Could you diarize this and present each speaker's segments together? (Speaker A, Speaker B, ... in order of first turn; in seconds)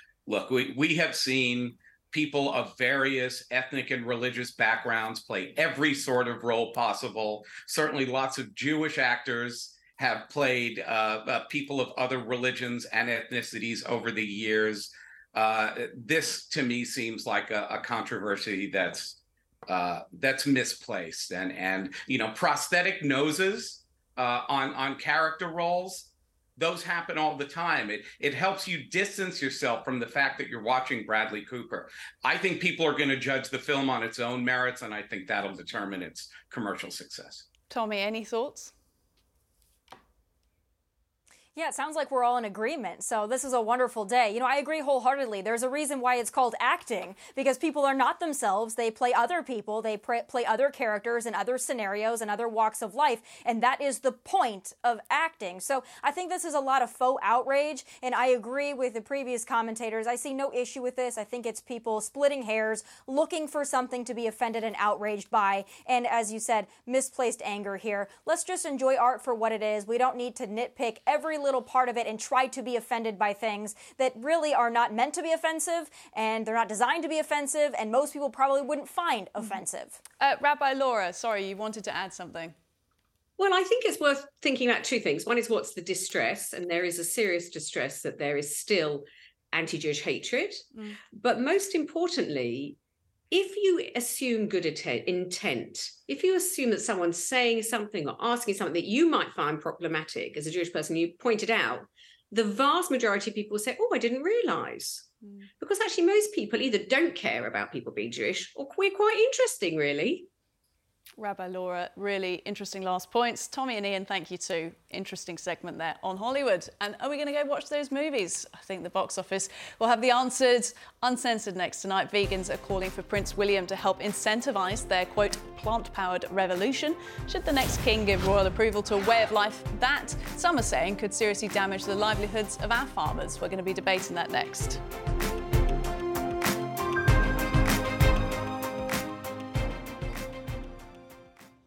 Speaker A: 0.3-37.5
Speaker B: 37.7-38.7, 80.2-82.5, 111.2-134.8
Speaker C: 41.5-80.0
Speaker D: 83.4-92.8, 93.3-110.3